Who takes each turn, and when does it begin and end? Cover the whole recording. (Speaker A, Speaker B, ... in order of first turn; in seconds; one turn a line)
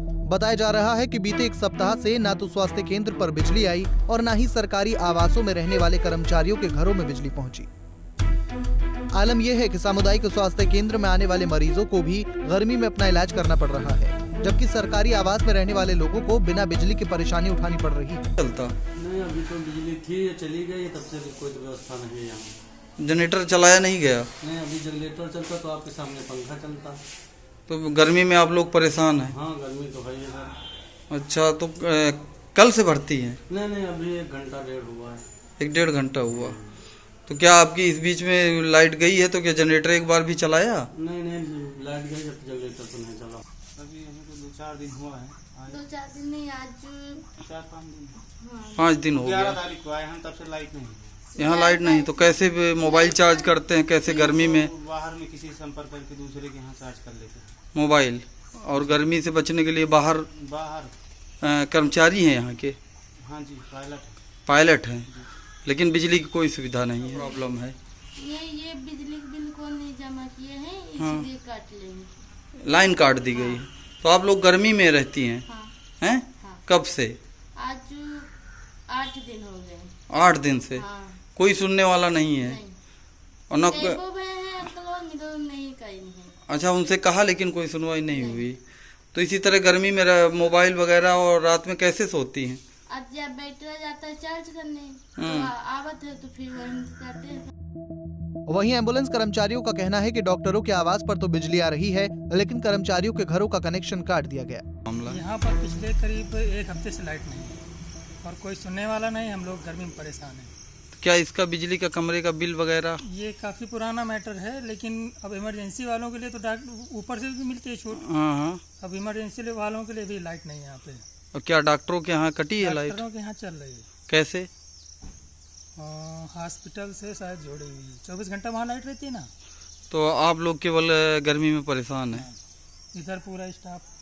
Speaker A: 0.3-7.7
Speaker A: 9.1-18.3
Speaker B: 18.4-18.7
Speaker C: 19.0-22.6
Speaker B: 23.0-24.3
Speaker C: 24.4-27.0
Speaker B: 27.7-29.3
Speaker C: 29.3-30.5
Speaker B: 31.1-33.4
Speaker C: 33.5-35.2
Speaker B: 35.6-36.6
Speaker C: 36.2-36.8
Speaker B: 37.3-40.9
Speaker C: 40.9-43.4
Speaker D: 43.8-45.8
Speaker E: 45.7-47.3
Speaker D: 47.4-48.2
Speaker E: 48.4-49.0
Speaker B: 48.8-49.6
Speaker D: 49.1-51.3
Speaker E: 51.4-54.3
Speaker B: 51.4-54.7
Speaker D: 54.3-57.5
Speaker B: 57.7-60.3
Speaker D: 58.7-59.0
Speaker D: 60.3-60.9
Speaker B: 61.4-62.8
Speaker D: 63.3-64.2
Speaker B: 64.5-65.1
Speaker B: 65.7-67.8
Speaker E: 68.2-72.1
Speaker B: 71.0-71.3
Speaker B: 72.6-75.4
Speaker E: 73.3-73.6
Speaker E: 75.5-75.8
Speaker B: 76.0-77.2
Speaker E: 76.4-76.7
Speaker E: 77.6-78.3
Speaker E: 78.9-79.9
Speaker B: 80.1-80.8
Speaker E: 80.8-81.2
Speaker B: 81.3-82.6
Speaker E: 82.4-82.8
Speaker B: 83.5-84.0
Speaker E: 83.6-86.3
Speaker B: 86.5-88.6
Speaker E: 88.1-88.5
Speaker B: 89.1-92.6
Speaker E: 92.9-97.5
Speaker B: 95.2-95.5
Speaker A: 98.5-104.6
Speaker B: 104.9-105.2
Speaker F: 105.0-107.6
Speaker F: 108.2-110.5
Speaker B: 111.0-113.0
Speaker F: 113.0-118.0
Speaker B: 118.0-118.6
Speaker F: 118.8-121.0
Speaker B: 121.3-123.0
Speaker F: 122.6-123.9
Speaker B: 124.1-124.5
Speaker F: 125.8-129.3
Speaker B: 129.9-132.3
Speaker F: 132.9-133.8